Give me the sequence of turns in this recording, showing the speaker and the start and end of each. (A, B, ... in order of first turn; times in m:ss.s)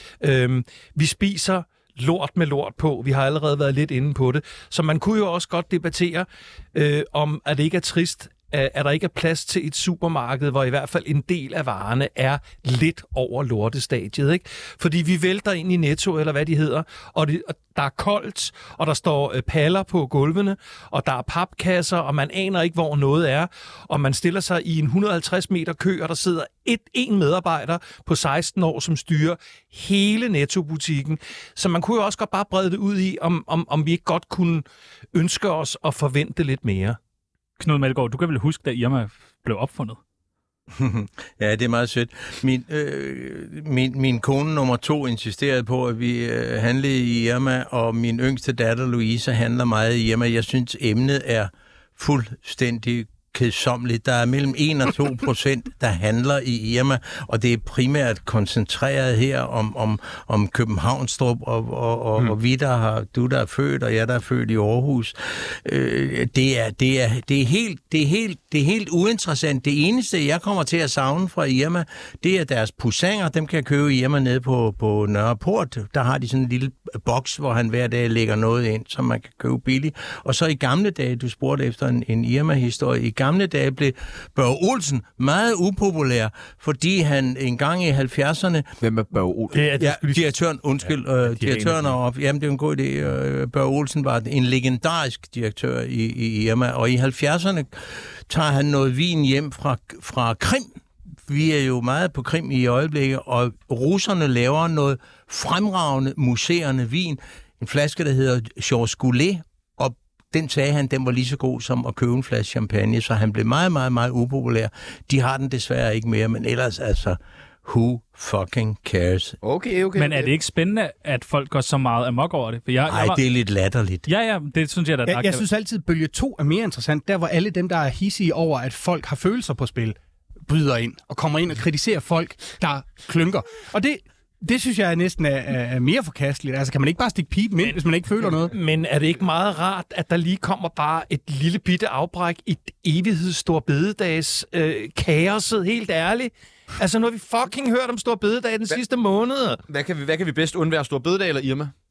0:00.2-0:37.0 A
0:37.6-0:40.0 B
0:40.7-1:28.7 C
1:28.8-1:29.7 D
1:29.5-1:30.3 A
1:29.8-1:40.7 C
1:31.2-1:32.0 A
1:41.3-1:59.4 C
1:59.4-2:00.3 D
2:00.0-2:03.2 B
2:02.9-2:04.0 C
2:04.1-2:05.4 B
2:05.0-2:18.5 E
2:17.6-2:29.6 A
2:29.7-2:31.7 D